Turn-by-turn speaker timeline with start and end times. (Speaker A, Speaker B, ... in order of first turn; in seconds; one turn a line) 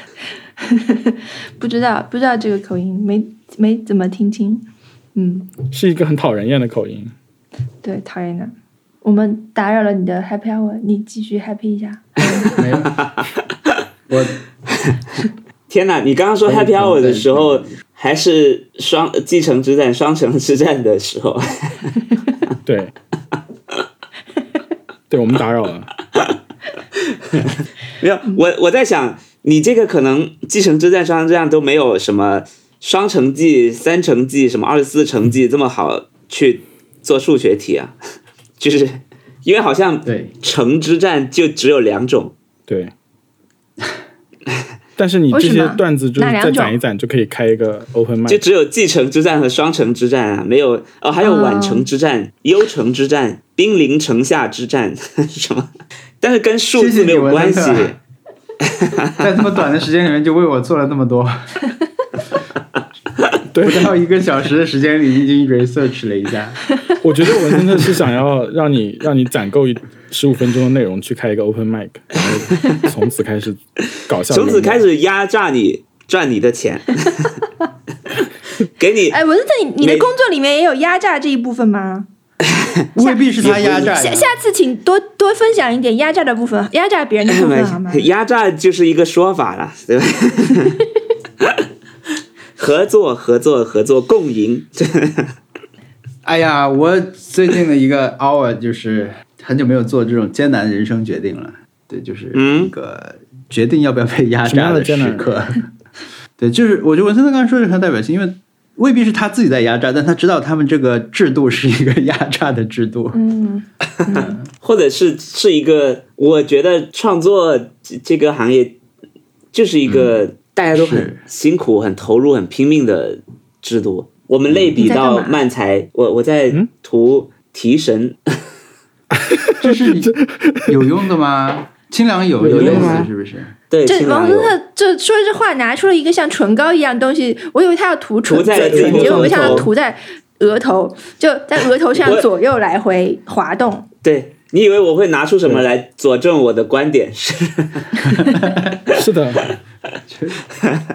Speaker A: 0.6-5.5
Speaker B: 5.7-7.1
Speaker A: 7.8-12.6
Speaker C: 12.4-13.1
Speaker C: 14.1-14.4
Speaker D: 15.7-21.9
Speaker C: 16.4-17.8
Speaker B: 22.6-22.9
Speaker B: 25.1-25.9
Speaker D: 27.1-38.0
Speaker D: 38.6-42.3
Speaker C: 40.0-40.3
Speaker B: 42.7-42.9
Speaker B: 45.0-48.4
Speaker A: 45.3-46.8
Speaker D: 48.3-58.0
Speaker A: 51.2-51.9
Speaker C: 56.7-57.9
Speaker D: 58.6-59.3
Speaker C: 59.2-61.5
Speaker B: 63.5-63.9
Speaker C: 63.6-66.6
Speaker B: 67.0-74.8
Speaker D: 74.3-77.4
Speaker D: 78.6-79.2
Speaker A: 79.1-82.1
Speaker D: 79.8-80.1
Speaker D: 82.4-82.8
Speaker C: 83.0-84.3
Speaker A: 83.0-88.1
Speaker D: 83.4-83.9
Speaker D: 87.2-90.8
Speaker D: 92.6-95.3
Speaker C: 96.2-105.7
Speaker D: 102.3-102.7
Speaker B: 104.5-105.3
Speaker C: 106.4-113.2
Speaker A: 113.1-114.4
Speaker D: 114.0-118.7
Speaker C: 114.2-114.5
Speaker D: 119.5-128.2
Speaker C: 119.9-120.2
Speaker C: 120.7-121.2
Speaker C: 124.5-124.9
Speaker A: 124.8-125.4
Speaker B: 129.3-130.8
Speaker C: 129.6-130.2
Speaker C: 130.7-133.5
Speaker D: 132.4-133.1
Speaker B: 132.5-133.1
Speaker D: 133.7-134.6
Speaker A: 133.9-143.9
Speaker D: 138.3-139.7
Speaker B: 138.7-139.7
Speaker D: 142.0-142.2
Speaker D: 144.0-148.2
Speaker C: 148.0-148.8
Speaker B: 148.9-149.5
Speaker C: 150.1-150.4